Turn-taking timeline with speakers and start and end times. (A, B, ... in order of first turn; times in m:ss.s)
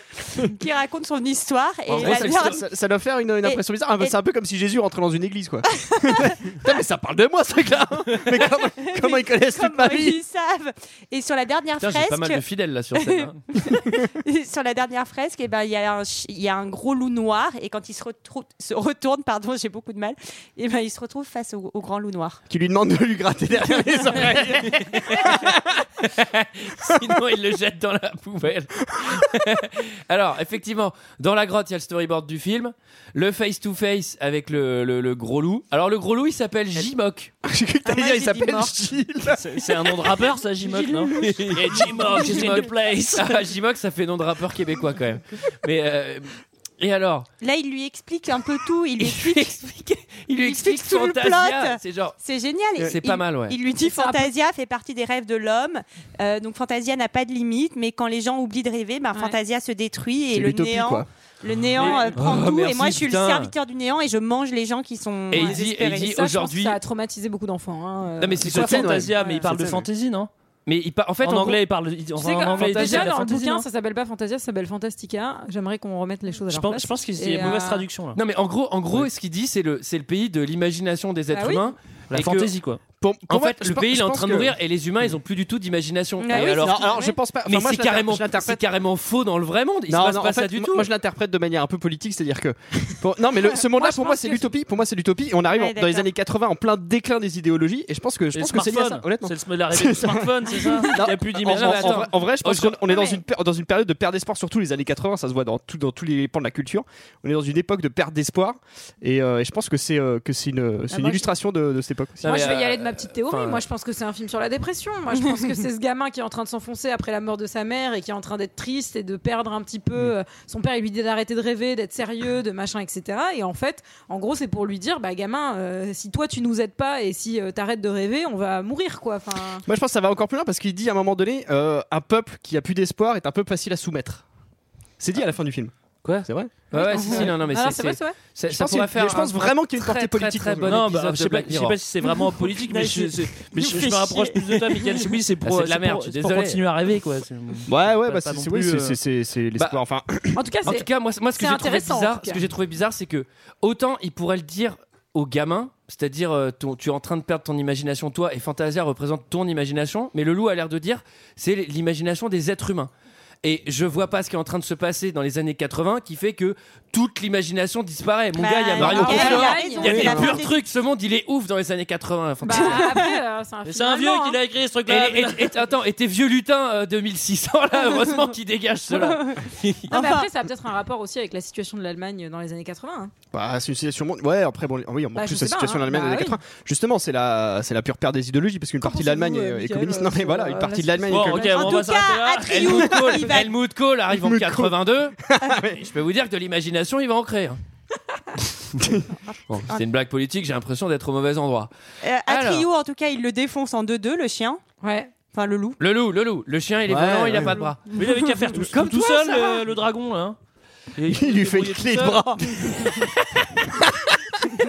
0:00.4-0:02.6 A
0:01.9-0:02.6 B
0:01.9-0:10.2 C
0:03.4-0:04.1 A
0:05.9-0:06.4 A
0:08.9-0:12.4 A
0:11.8-0:13.4 B
0:13.0-0:22.4 A
0:22.5-0:25.7 C
0:24.6-0:37.3 B
0:37.4-0:40.1 C
0:37.8-0:38.7 A
0:39.3-0:43.4 D
0:40.8-0:41.1 A
0:41.1-0:46.3 B
0:46.8-0:47.3 B
0:47.4-0:49.6 A
0:49.0-0:52.2 B
0:50.4-1:06.2 A
0:52.8-0:53.6 B
0:53.8-0:54.3 E
1:00.3-1:01.1 C
1:01.8-1:03.5 B
1:05.3-1:06.8 B
1:05.4-1:09.4 E
1:08.2-1:08.8 B
1:08.4-1:09.9 C
1:08.4-1:10.3 D
1:10.7-1:11.6 B
1:11.2-1:13.7 D
1:12.2-1:17.9 E
1:12.5-1:13.1 B
1:16.5-1:18.2 D
1:18.2-1:22.5 B
1:21.3-1:21.7 E
1:22.1-1:22.8 D
1:23.0-1:24.5 C
1:23.3-1:30.9 B
1:26.2-1:26.8 A
1:26.3-1:27.2 E
1:26.6-1:28.6 C
1:29.9-1:52.4 C
1:33.6-1:34.5 E
1:35.5-1:36.1 A
1:38.3-1:42.0 D
1:41.5-1:42.9 B
1:42.9-1:43.2 A
1:50.9-1:51.3 E
1:52.2-2:09.6 E
1:52.2-1:53.6 B
2:09.6-2:14.2 C
2:15.0-2:16.5 C
2:16.7-2:21.8 B
2:16.7-2:18.2 E
2:18.5-2:20.8 C
2:20.7-2:29.0 D
2:25.4-2:26.6 B
2:27.7-2:30.4 C
2:30.3-2:32.4 E
2:30.6-2:42.9 B
2:43.4-2:52.9 B
2:48.4-2:50.6 A
2:48.8-2:50.3 E
2:52.4-2:54.4 E
2:52.5-2:53.2 A
2:53.7-2:55.6 D
2:54.9-2:59.9 B
2:58.9-3:00.3 A
2:59.9-3:03.1 E
3:03.3-3:11.7 C
3:05.2-3:06.4 E
3:08.8-3:11.8 E
3:11.1-3:13.1 D
3:11.5-3:13.5 A
3:12.4-3:15.2 B
3:14.1-3:15.8 C
3:15.8-3:17.6 B
3:18.8-3:19.0 C
3:19.5-3:21.7 B
3:22.0-3:24.6 A
3:22.3-3:22.7 B
3:24.8-3:25.1 E
3:25.3-3:25.8 A
3:25.8-3:27.9 B
3:26.9-3:27.7 C
3:27.9-3:30.4 D
3:28.9-3:29.6 E
3:31.0-3:32.4 D
3:31.1-3:33.1 C